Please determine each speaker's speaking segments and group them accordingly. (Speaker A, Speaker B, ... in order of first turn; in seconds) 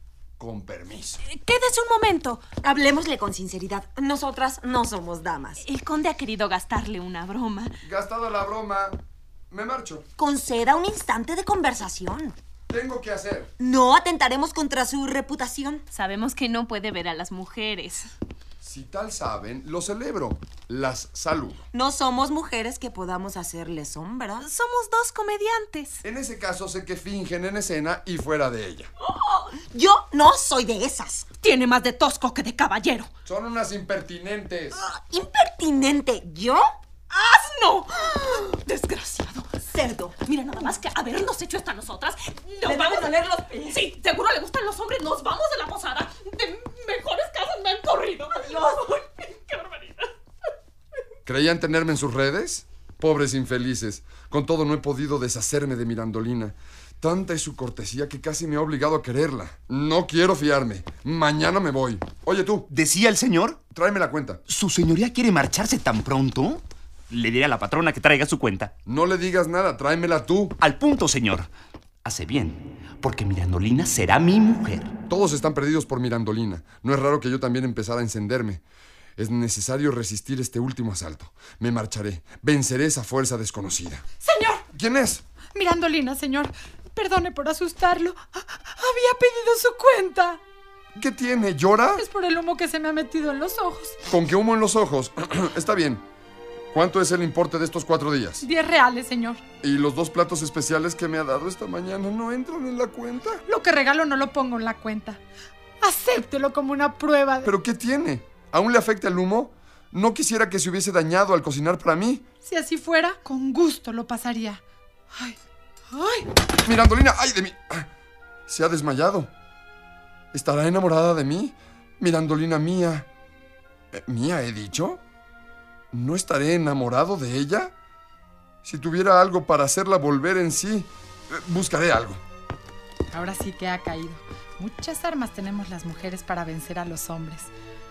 Speaker A: 0.4-1.2, 7.8-9.0, 9.5-10.1, 12.7-13.5, 18.6-21.6, 26.0-28.9, 33.2-34.8, 51.2-62.7, 63.7-64.4, 68.8-70.5, 75.1-78.6, 79.2-84.0, 84.7-85.2, 90.9-92.0, 94.1-96.0, 96.7-98.4, 99.6-103.4, 107.4-112.2, 116.6-117.9, 118.5-119.3, 120.3-123.1, 123.9-125.0, 125.9-127.7, 128.6-132.2
Speaker B: 1.2-2.4, 5.6-7.7, 15.9-18.1, 24.4-26.0, 31.4-33.1, 37.1-39.6, 40.1-50.1
Speaker C: 2.6-5.6, 10.2-12.3, 13.6-15.8, 21.7-24.4, 29.6-31.2, 34.7-36.7, 39.7-40.6, 42.6-43.8
Speaker D: 62.7-63.6, 64.5-68.7, 70.6-71.5, 72.0-74.9
Speaker E: 84.2-84.6, 85.5-90.4, 92.0-94.0, 98.4-99.4, 103.5-105.2, 105.8-107.5, 112.4-114.6, 115.1-115.4, 115.9-116.3, 133.1-137.5